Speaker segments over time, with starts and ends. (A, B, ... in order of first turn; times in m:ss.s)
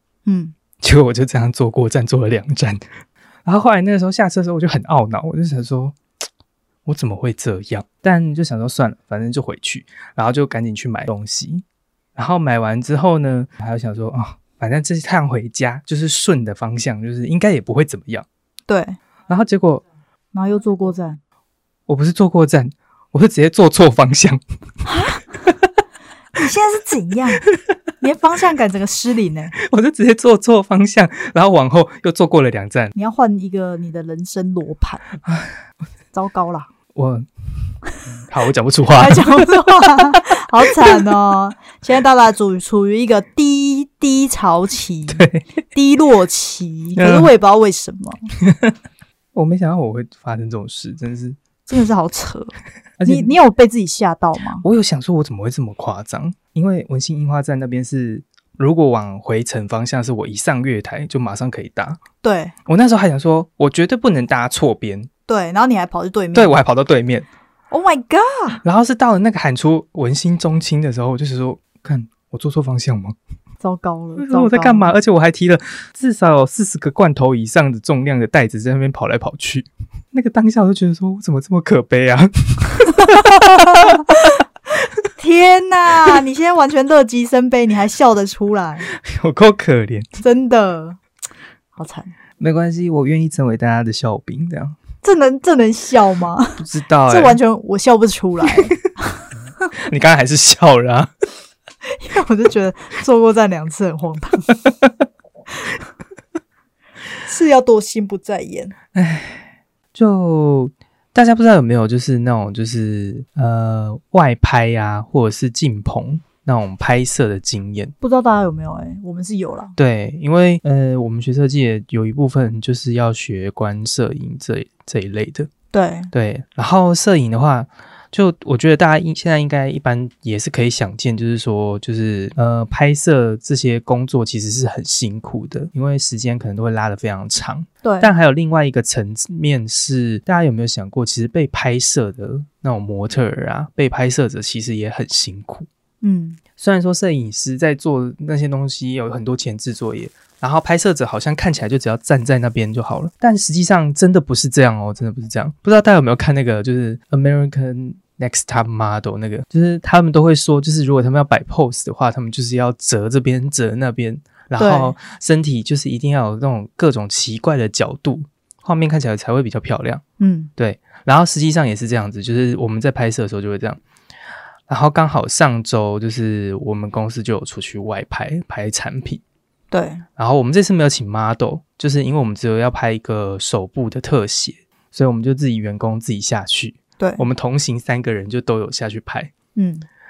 0:00.2-0:00.5 A
0:00.8-0:02.8 B
0:03.5-0:06.0 B
0:06.8-0:11.6 B
0:12.2-0:18.2 B
0:18.7-0:19.0 A
0:19.3-0:19.8 B
0:20.3-0:21.2 A
0:21.9-0:24.4 B
0:24.8-0:25.2 A
0:26.3-0:27.5 A
0:28.0-0:29.6 A
0:29.6-0:32.9 B
0:32.9-0:35.1 A
0:36.1-0:36.7 A
0:36.9-0:37.2 B
0:38.3-0:40.2 B
0:39.0-0:48.2 A
0:45.1-0:45.4 B
0:47.0-0:47.3 B
0:49.4-0:51.4 B
0:51.6-0:52.5 A
0:53.0-0:53.3 B
0:53.1-0:54.6 A
0:54.6-1:02.0 B
1:02.2-1:02.5 A
1:02.7-1:05.1 B
1:05.3-1:06.5 A
1:06.3-1:07.3 B
1:07.7-1:08.6 A
1:08.6-1:13.1 B
1:13.6-1:14.9 A
1:14.2-1:24.2 B
1:25.2-1:28.9 A
1:28.9-1:30.1 B
1:30.2-1:31.0 A
1:31.8-1:32.1 A
1:32.4-1:34.8 B
1:35.0-1:39.2 A
1:36.6-1:37.4 B
1:39.8-1:41.1 B
1:42.0-1:44.6 A
1:47.2-1:48.8 A
1:48.9-1:57.9 B
1:58.0-1:59.8 A
1:59.8-2:05.5 B
2:05.7-2:06.1 A
2:06.1-2:25.7 B
2:17.8-2:18.1 A
2:26.0-2:26.4 A
2:26.6-2:50.0 B
2:44.6-2:45.0 A
2:50.2-2:50.5 A
2:50.6-2:53.8 B
2:54.7-2:59.2 B
2:59.7-3:00.0 A
3:00.2-3:09.3 B
3:09.6-3:09.8 A